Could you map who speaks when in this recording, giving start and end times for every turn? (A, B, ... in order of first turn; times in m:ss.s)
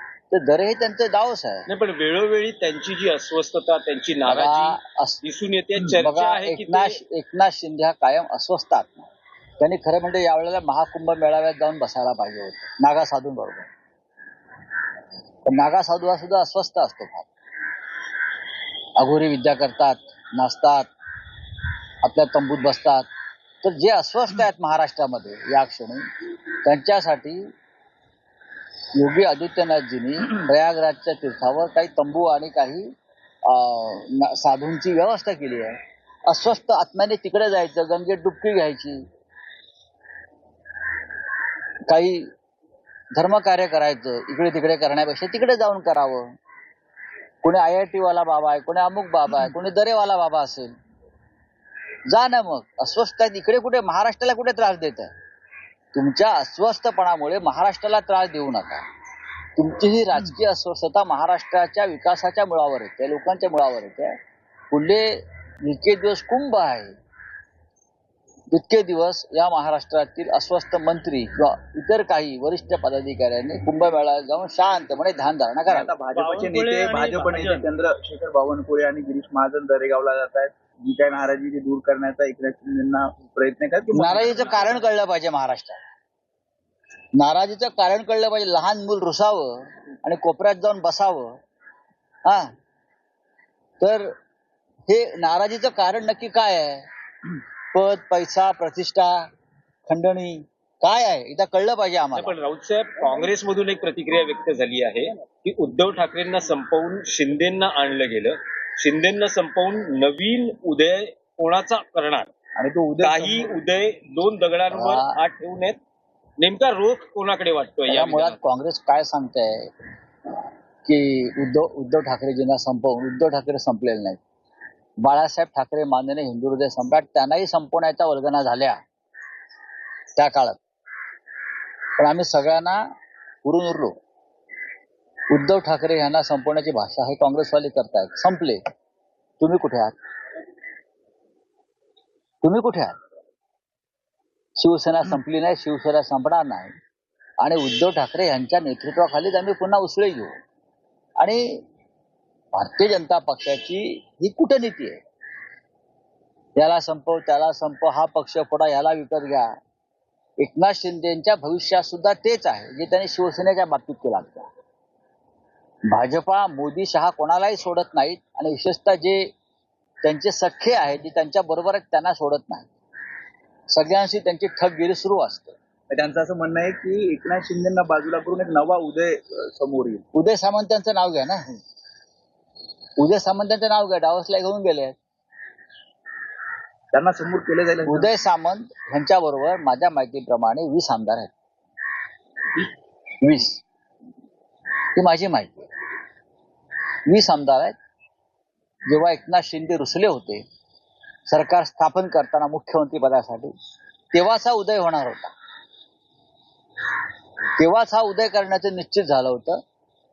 0:00.3-0:01.7 A
0:01.7-0:07.0 B
0:04.3-0:05.2 A
0:05.8-0:09.1 A
0:09.6-0:13.7 A
0:15.4-0:17.3 A
0:19.0-0:20.9 A
0:22.0-0:23.1 A
0:23.6-0:26.0 A
0:26.6-0:27.4 A
0:29.0-0:32.9 A
0:33.4-0:39.0 A
0:41.9-0:42.2 A
0:43.1-0:46.2 A
0:47.4-0:50.7 A
0:52.1-0:55.1 A
0:55.9-0:58.8 A
0:59.6-1:04.2 A
1:04.7-1:05.1 A
1:05.6-1:06.9 A
1:08.5-1:16.0 A
1:15.7-1:24.7 C
1:16.1-1:17.7 B
1:23.9-1:25.8 A
1:27.2-1:31.4 A
1:32.2-1:32.5 A
1:33.8-1:34.1 A
1:34.9-1:36.9 A
1:37.7-1:39.3 A
1:39.9-1:42.4 A
1:42.2-1:52.3 B
1:52.6-1:53.3 A
1:53.0-1:55.8 B
1:54.7-1:55.2 A
1:56.4-1:58.4 B
1:57.9-1:59.7 A
2:00.8-2:04.2 A
2:05.0-2:08.8 A
2:10.2-2:10.6 A
2:12.0-2:12.8 A
2:13.4-2:14.0 A
2:15.3-2:18.6 A
2:19.4-2:20.0 A
2:22.4-2:23.0 A
2:24.6-2:26.7 A
2:27.4-2:30.3 A
2:32.5-2:35.0 A
2:36.6-2:39.5 A
2:40.4-2:44.5 A
2:45.9-2:49.2 A
2:50.0-2:52.7 A
2:53.7-2:55.6 A
2:55.9-3:00.0 C
3:00.1-3:01.5 A
3:03.0-3:05.0 A
3:06.9-3:08.1 C
3:07.9-3:11.3 A
3:13.2-3:13.6 A
3:15.0-3:15.7 A
3:17.1-3:17.8 A
3:18.9-3:20.4 A
3:21.3-3:23.5 A
3:24.1-3:25.3 A
3:27.6-3:29.6 A